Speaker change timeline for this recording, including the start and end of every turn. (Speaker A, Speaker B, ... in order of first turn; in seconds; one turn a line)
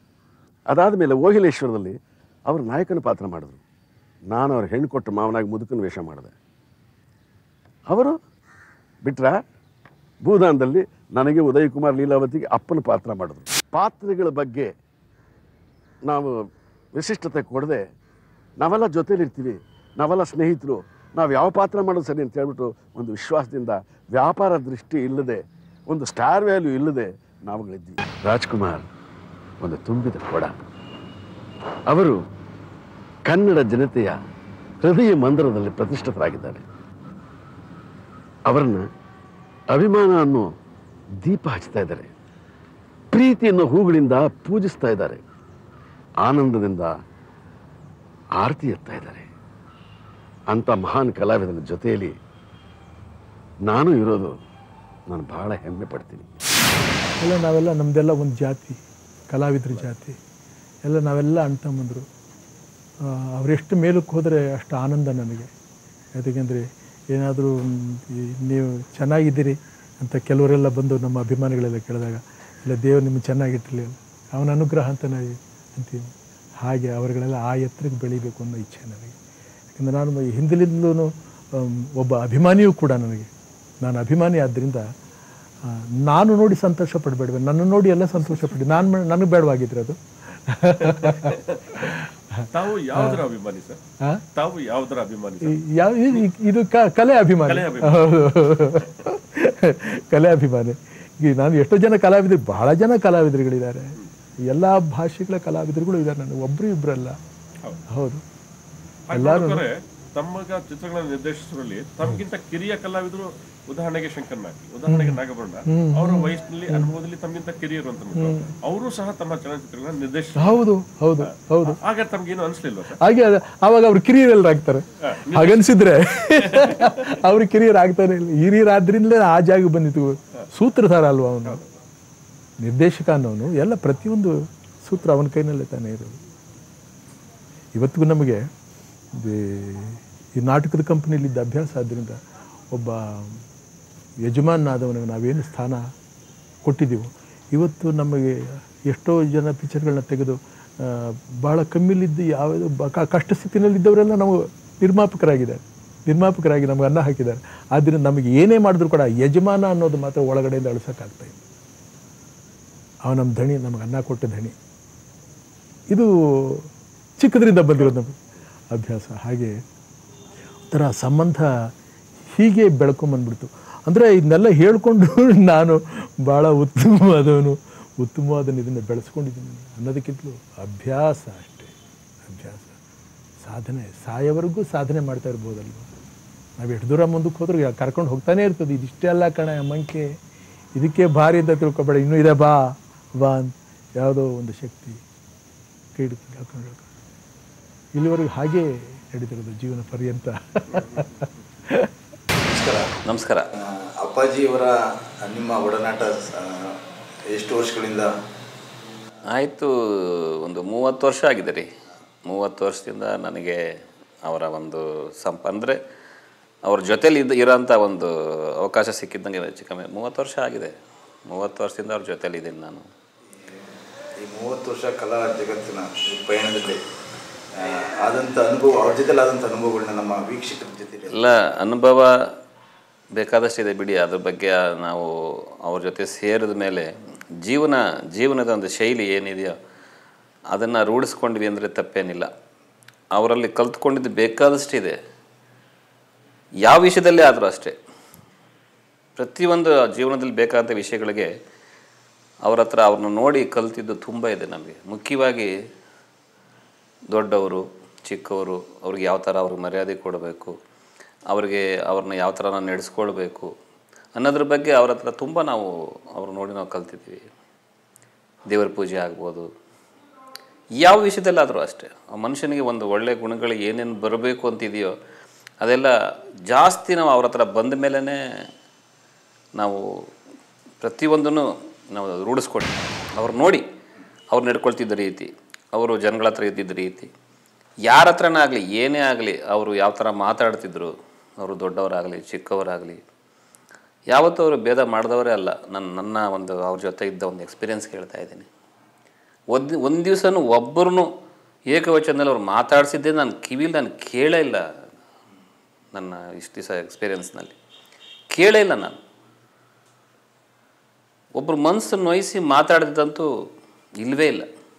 Speaker A: 0.7-1.9
Speaker A: 2.5-3.6
Speaker A: 4.3-6.3
Speaker A: 7.9-8.2
Speaker A: 9.1-9.4
Speaker A: 10.2-14.7
Speaker A: 16.1-16.3
Speaker A: 16.9-17.8
Speaker A: 18.6-28.8
Speaker A: 29.6-30.5
Speaker A: 31.9-32.2
Speaker A: 33.3-34.1
Speaker A: 34.8-36.6
Speaker A: 38.5-38.9
Speaker A: 39.7-40.5
Speaker A: 41.2-42.1
Speaker A: 43.1-45.2
Speaker A: 46.2-46.9
Speaker A: 48.4-49.3
Speaker A: 50.5-52.1
Speaker A: 53.7-54.4
Speaker A: 55.1-56.3
Speaker B: 57.2-58.8
Speaker B: 59.3-60.1
Speaker B: 60.9-62.1
Speaker B: 63.1-65.5
Speaker B: 66.2-79.1
Speaker B: 79.8-83.3
Speaker B: 83.8-84.8
Speaker B: 85.7-92.0
Speaker C: 90.8-91.8
Speaker C: 92.5-93.8
Speaker B: 92.9-93.2
Speaker C: 94.3-95.6
Speaker B: 95.5-103.9
Speaker C: 97.5-98.1
Speaker B: 104.5-107.2
Speaker B: 107.9-108.2
Speaker C: 109.1-120.6
Speaker B: 109.1-109.6
Speaker B: 114.9-117.0
Speaker B: 118.2-118.5
Speaker B: 120.4-121.8
Speaker C: 121.7-123.0
Speaker B: 123.0-131.6
Speaker C: 125.1-125.6
Speaker C: 126.4-126.9
Speaker B: 132.6-136.2
Speaker B: 137.8-138.4
Speaker B: 139.1-142.2
Speaker B: 142.7-143.4
Speaker B: 144.2-145.8
Speaker B: 146.6-161.4
Speaker B: 163.1-164.6
Speaker B: 165.9-166.7
Speaker B: 167.2-168.2
Speaker B: 168.7-169.6
Speaker B: 170.7-171.5
Speaker B: 172.4-181.7
Speaker B: 182.3-182.8
Speaker B: 183.4-185.9
Speaker B: 186.6-190.1
Speaker B: 190.8-195.0
Speaker B: 196.0-196.9
Speaker B: 197.9-201.9
Speaker D: 202.4-202.9
Speaker E: 203.0-203.5
Speaker D: 203.6-206.8
Speaker D: 207.3-208.1
Speaker E: 209.3-211.7
Speaker E: 212.2-213.6
Speaker E: 214.2-215.8
Speaker E: 216.6-220.7
Speaker E: 221.3-222.9
Speaker D: 224.2-226.8
Speaker D: 227.6-231.1
Speaker E: 231.1-232.3
Speaker E: 233.1-239.6
Speaker E: 240.5-242.3
Speaker E: 243.1-245.0
Speaker E: 246.6-247.8
Speaker E: 249.2-251.3
Speaker E: 252.4-255.5
Speaker E: 257.1-260.6
Speaker E: 261.3-263.5
Speaker E: 264.1-267.3
Speaker E: 268.5-269.5
Speaker E: 270.8-274.9
Speaker E: 275.6-275.9
Speaker E: 276.5-278.4
Speaker E: 279.6-280.1
Speaker E: 280.8-283.6
Speaker E: 284.3-287.1
Speaker E: 287.8-293.0
Speaker E: 294.1-298.5
Speaker E: 299.5-301.1
Speaker E: 301.7-304.6
Speaker E: 305.9-307.6
Speaker E: 308.3-309.0
Speaker E: 311.3-313.3
Speaker E: 314.0-314.5